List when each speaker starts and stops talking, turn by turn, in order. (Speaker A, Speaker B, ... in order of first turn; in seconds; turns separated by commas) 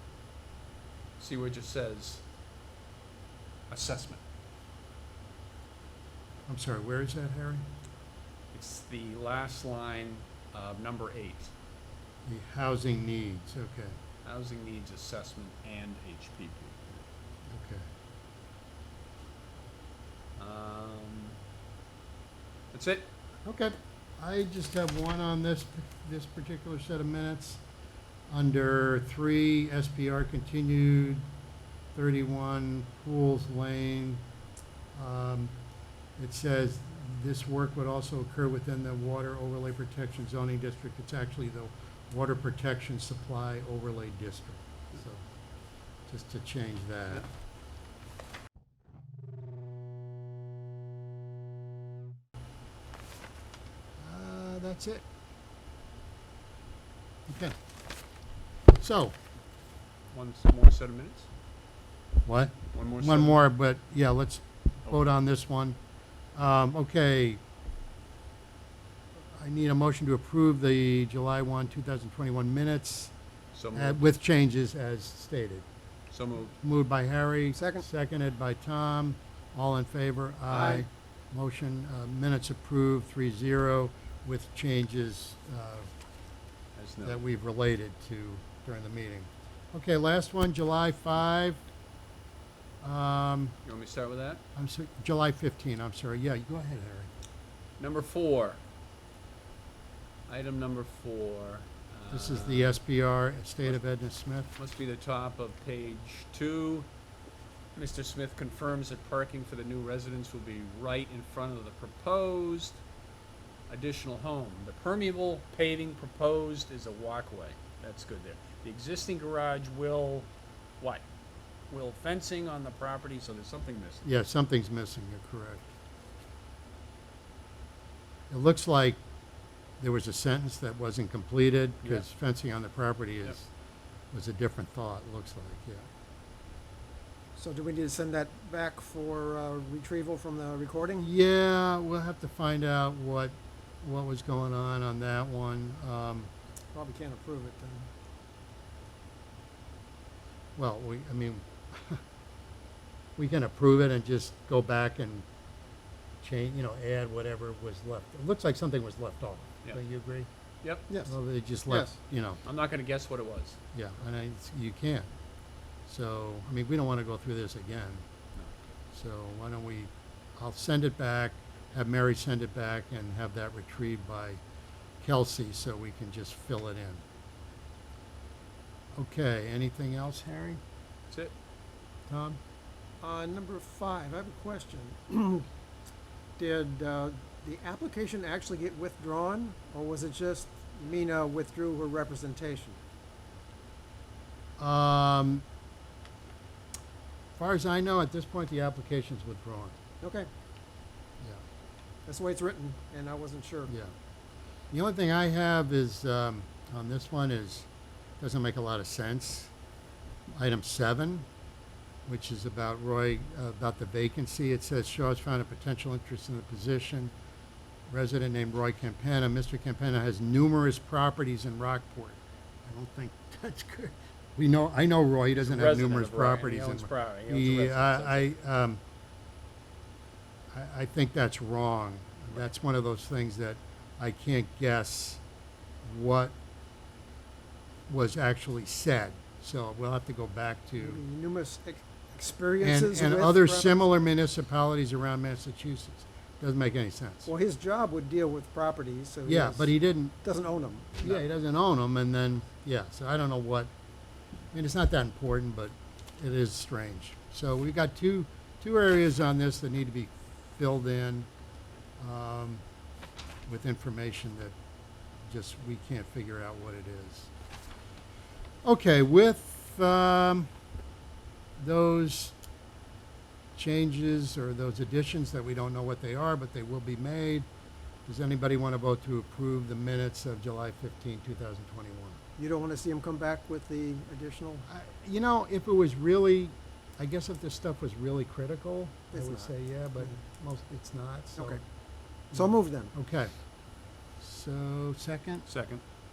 Speaker A: 1.2-2.2, Speaker A: 3.7-4.2, Speaker B: 6.5-7.6, Speaker A: 8.5-11.5, Speaker B: 12.2-13.9, Speaker A: 14.2-17.0, Speaker B: 17.5-17.8, Speaker A: 20.4-21.4, Speaker A: 22.7-23.1, Speaker B: 23.4-27.6, Speaker B: 28.3-31.2, Speaker B: 31.9-34.2, Speaker B: 34.9-35.5, Speaker B: 36.2-45.2, Speaker B: 46.1-47.3, Speaker B: 54.0-55.0, Speaker B: 57.3-57.5, Speaker B: 58.7-59.1, Speaker A: 60.1-61.3, Speaker B: 62.2-65.8, Speaker A: 62.7-63.4, Speaker B: 66.3-67.4, Speaker B: 69.4-73.1, Speaker A: 73.5-74.2, Speaker B: 73.7-75.7, Speaker A: 76.1-76.5, Speaker B: 76.6-85.9, Speaker C: 77.5-77.8, Speaker C: 80.5-80.8, Speaker A: 86.8-87.2, Speaker B: 87.0-91.6, Speaker B: 92.8-93.5, Speaker A: 93.6-94.4, Speaker B: 94.5-97.1, Speaker A: 97.8-98.6, Speaker A: 100.3-102.8, Speaker B: 102.1-104.6, Speaker A: 104.6-106.9, Speaker A: 107.7-112.8, Speaker A: 113.7-120.3, Speaker A: 121.7-124.0, Speaker B: 124.0-125.7, Speaker B: 128.3-129.0, Speaker B: 129.8-133.5, Speaker B: 134.1-135.9, Speaker C: 137.3-141.1, Speaker B: 141.0-146.3, Speaker C: 146.7-147.9, Speaker B: 150.6-152.0, Speaker B: 153.2-155.2, Speaker B: 156.2-160.3, Speaker C: 160.9-161.1, Speaker B: 161.1-162.4, Speaker C: 161.7-161.9, Speaker A: 162.4-163.6, Speaker B: 163.7-165.1, Speaker B: 165.9-168.0, Speaker A: 168.3-168.7, Speaker B: 168.9-174.4, Speaker B: 175.0-177.0, Speaker B: 178.9-180.6, Speaker B: 182.1-182.4, Speaker C: 183.0-185.5, Speaker C: 186.4-192.8, Speaker B: 194.6-195.4, Speaker B: 197.4-199.8, Speaker C: 200.0-200.3, Speaker C: 202.1-203.7, Speaker B: 203.7-203.9, Speaker B: 204.7-207.7, Speaker B: 208.2-209.5, Speaker B: 210.3-211.3, Speaker B: 212.1-217.1, Speaker B: 217.9-228.8, Speaker A: 225.4-228.3, Speaker B: 230.5-235.2, Speaker B: 235.8-236.3, Speaker B: 237.9-241.0, Speaker C: 240.8-243.7, Speaker B: 242.6-247.3, Speaker C: 247.3-249.7, Speaker B: 249.2-250.2, Speaker C: 250.2-251.1, Speaker B: 251.0-253.7, Speaker B: 254.5-261.3, Speaker B: 262.0-262.6, Speaker B: 263.4-264.5, Speaker B: 265.3-267.3, Speaker B: 268.6-270.5, Speaker B: 271.6-272.3, Speaker B: 273.5-277.5, Speaker B: 278.1-282.2, Speaker C: 282.4-284.6, Speaker B: 284.7-291.6, Speaker C: 289.1-290.2, Speaker C: 292.3-292.9, Speaker B: 292.3-293.3, Speaker B: 294.2-295.5, Speaker A: 295.5-295.8